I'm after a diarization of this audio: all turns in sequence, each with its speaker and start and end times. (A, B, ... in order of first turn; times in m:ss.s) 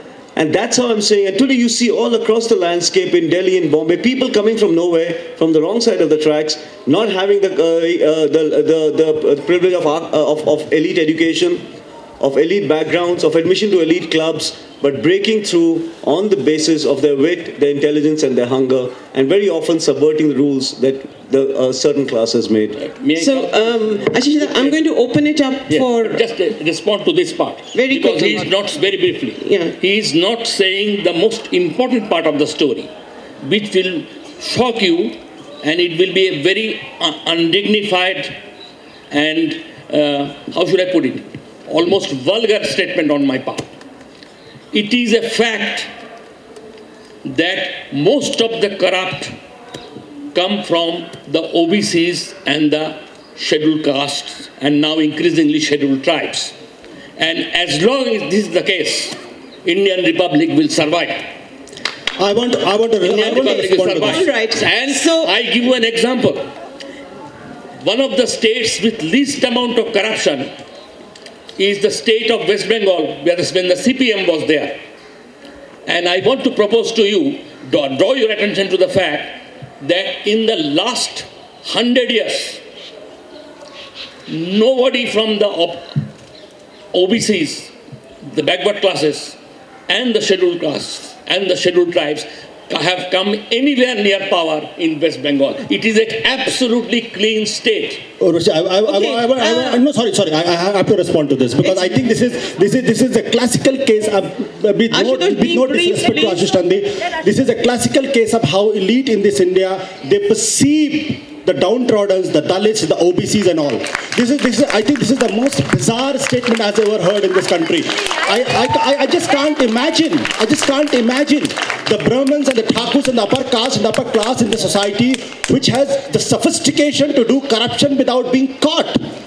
0:00.4-0:11.7 A
0:12.2-0:22.8 A
0:22.8-0:24.8 B
0:23.2-0:26.2 C
0:25.7-0:32.9 B
0:27.7-0:28.5 C
0:29.4-0:29.7 C
0:33.4-0:38.4 B
0:39.1-0:43.7 B
0:44.7-0:45.9 B
0:47.2-0:49.3 B
0:50.3-0:56.5 B
0:57.2-1:01.3 B
1:02.2-1:04.3 D
1:03.0-1:06.4 B
1:03.1-1:05.3 C
1:07.8-1:10.5 B
1:11.6-1:14.8 B
1:15.9-1:22.6 B
1:24.3-1:26.0 B
1:26.9-1:27.7 B
1:28.2-1:38.0 B
1:38.2-2:09.0 D
1:38.8-1:39.8 C
1:41.6-1:42.0 C
1:44.9-1:46.5 C